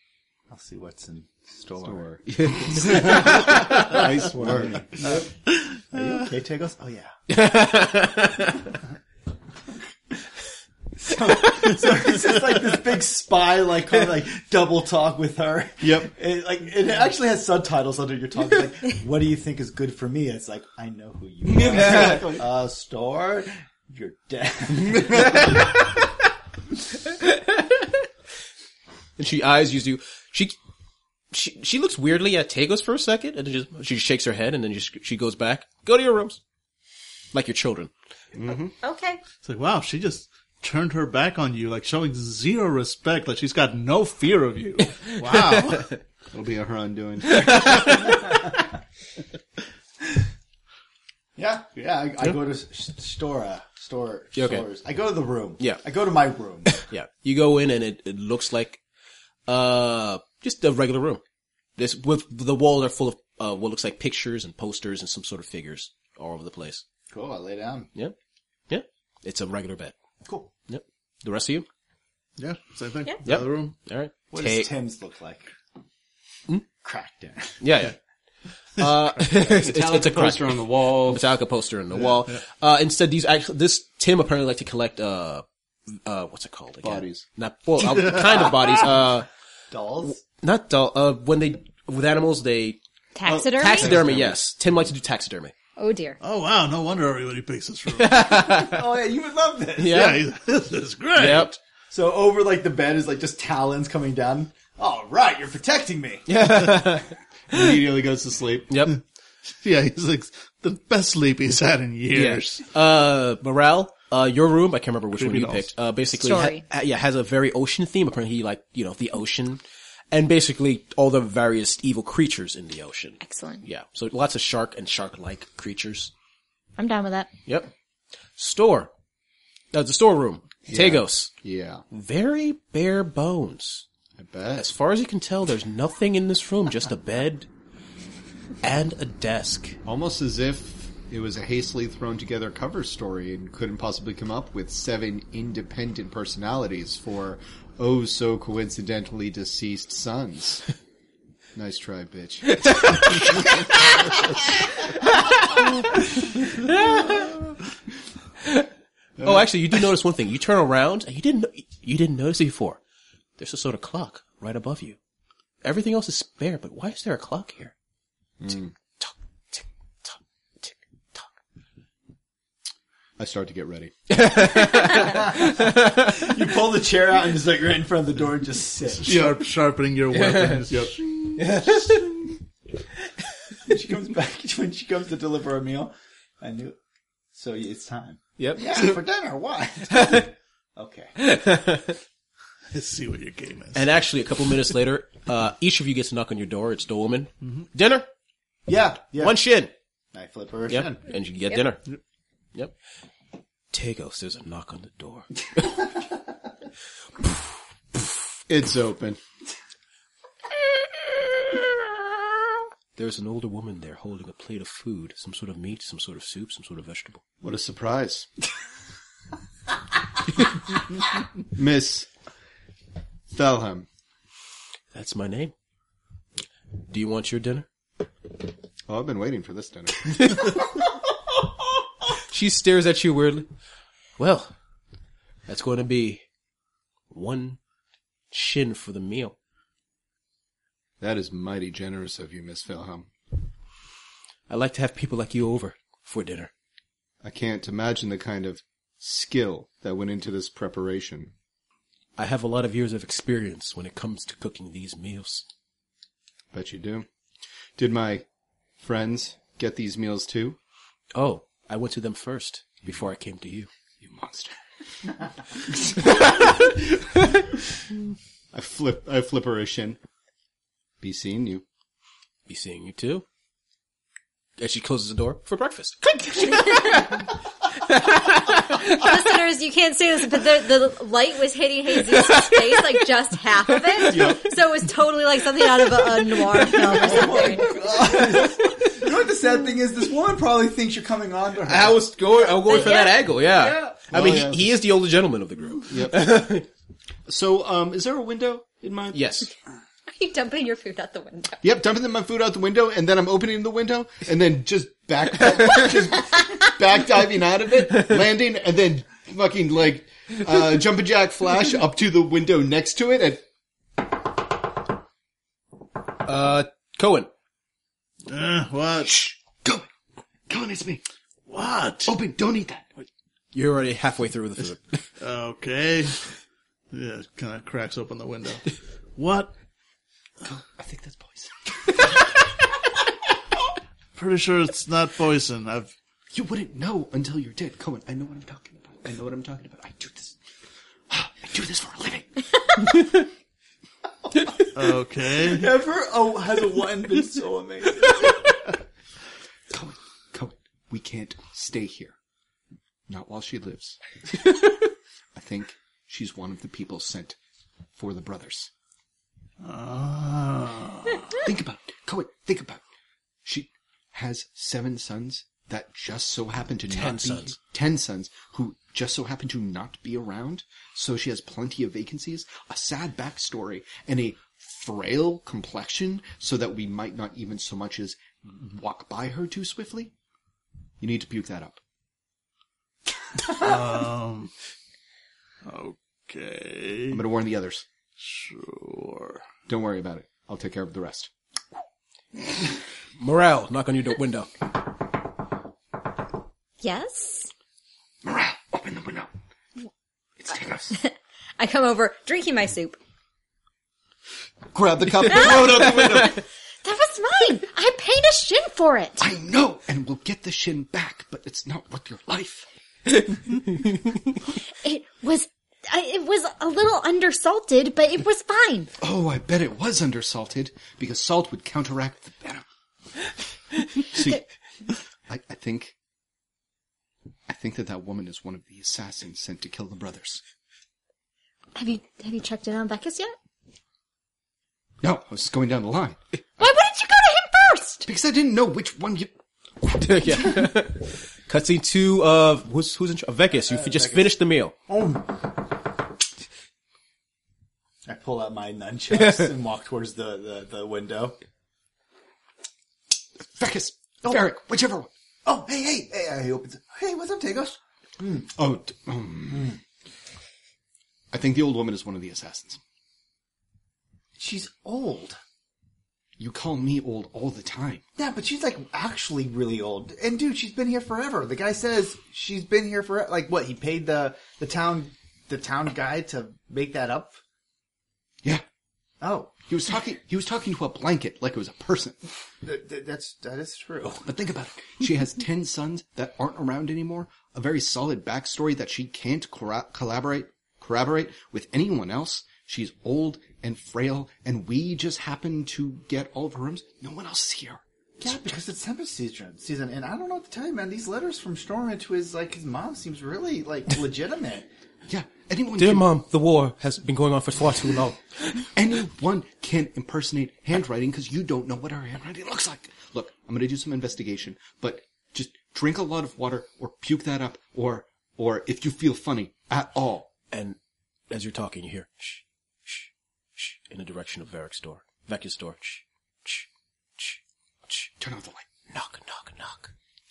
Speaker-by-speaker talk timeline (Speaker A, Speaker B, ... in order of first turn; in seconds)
Speaker A: 0.5-2.0, 2.7-5.3, 5.9-7.1, 11.0-25.7, 48.1-48.4, 51.4-56.7, 67.1-67.9, 70.2-70.5, 74.3-75.5, 76.8-77.6, 89.7-90.2, 98.3-100.1, 101.9-106.3, 174.9-179.3, 183.6-186.8, 187.3-191.1, 198.7-199.4, 200.1-201.0, 286.8-292.1, 345.4-348.4, 443.6-444.3, 444.9-445.5, 448.0-451.4, 455.4-458.5, 459.5-459.8, 464.4-465.4, 468.1-477.4, 479.2-479.5, 482.6-484.3, 498.2-504.7
Speaker B: 1.8-5.1, 15.8-16.1, 21.4-22.4, 38.3-38.7, 46.3-47.9, 79.3-81.3, 86.8-87.2, 93.2-94.4, 107.5-108.7, 130.7-131.8, 134.2-134.7, 139.8-150.6, 151.5-153.5, 159.2-159.5, 168.4-168.7, 173.2-173.9, 179.1-179.4, 180.7-181.3, 208.5-209.2, 217.4-218.3, 221.5-222.1, 223.3-223.9, 228.9-230.5, 241.0-243.1, 247.2-251.3, 256.5-257.1, 257.8-258.2, 258.8-260.6, 264.0-264.6, 265.5-267.3, 268.5-270.0, 271.0-271.6, 284.1-284.5, 294.0-294.7, 295.9-296.3, 297.3-299.2, 301.6-313.4, 319.0-319.9, 320.5-321.0, 322.0-323.1, 330.4-332.2, 336.3-340.4, 341.1-342.5, 349.7-352.1, 353.1-354.0, 355.3-357.4, 357.9-358.7, 361.3-362.8, 363.4-380.1, 381.0-381.8, 387.1-387.8, 389.7-391.3, 398.2-399.3, 400.4-400.9, 404.7-406.4, 409.2-412.7, 419.0-422.6, 424.0-424.5, 425.3-425.9, 427.5-430.4, 435.0-436.2, 438.1-439.3, 453.4-455.1, 458.5-459.8, 461.3-462.8, 466.4-468.0, 479.7-482.2, 484.2-498.4, 505.1-506.1, 508.7-520.3, 528.2-528.6
Speaker C: 2.3-4.0, 7.3-8.7, 27.1-27.9, 29.2-30.6, 31.3-36.4, 37.3-37.9, 45.1-46.0, 47.2-48.4, 54.4-54.6, 56.7-58.8, 59.5-61.2, 61.8-66.8, 68.7-69.9, 70.7-71.7, 73.2-74.7, 77.6-78.0, 78.8-89.3, 90.0-92.8, 93.5-95.5, 97.9-98.9, 99.8-100.2, 101.1-101.6, 106.3-107.8, 108.7-109.0, 112.1-126.1, 127.5-127.7, 128.4-128.9, 129.7-131.3, 131.9-133.8, 134.5-137.5, 138.6-139.8, 152.6-153.4, 155.2-155.7, 156.4-157.3, 158.4-158.7, 159.2-162.8, 163.4-165.0, 165.6-167.7, 169.0-171.2, 174.1-176.3, 180.1-180.6, 181.4-182.1, 188.4-188.9, 189.9-190.3, 191.2-192.0, 193.7-198.1, 199.2-199.7, 200.7-201.8, 203.7-205.8, 212.9-217.2, 224.9-225.5, 226.9-227.7, 232.2-233.5, 234.2-234.5, 235.5-236.2, 237.1-237.6, 238.3-239.3, 244.5-246.5, 252.2-255.4, 261.1-263.7, 272.5-273.2, 274.6-277.2, 277.7-279.2, 282.1-282.8, 283.7-284.4, 286.5-287.1, 288.4-289.0, 291.6-296.7, 299.1-299.5, 316.2-317.3, 323.5-325.1, 366.9-367.6, 393.2-394.5, 439.8-444.7, 449.2-449.4, 505.8-508.6, 520.5-520.8, 521.3-528.1, 528.9-529.9
Speaker D: 38.8-39.2, 93.1-94.0, 95.8-96.2, 116.2-116.6, 123.2-123.6, 126.8-127.3, 276.4-277.1, 278.7-288.2, 292.4-293.9, 300.1-301.6, 396.8-397.5, 400.9-403.0, 405.2-409.3, 414.8-418.9, 431.8-433.3, 436.6-438.1
Speaker E: 39.4-45.9, 72.4-73.7, 87.8-88.8, 96.2-98.3, 99.9-101.5, 109.6-112.6, 115.1-115.7, 179.0-181.0, 192.7-193.9, 318.3-319.2, 321.5-322.1, 325.2-326.2, 326.9-329.5, 334.1-335.9, 344.7-345.7, 359.6-361.4, 383.4-384.5, 385.6-387.2, 388.2-389.4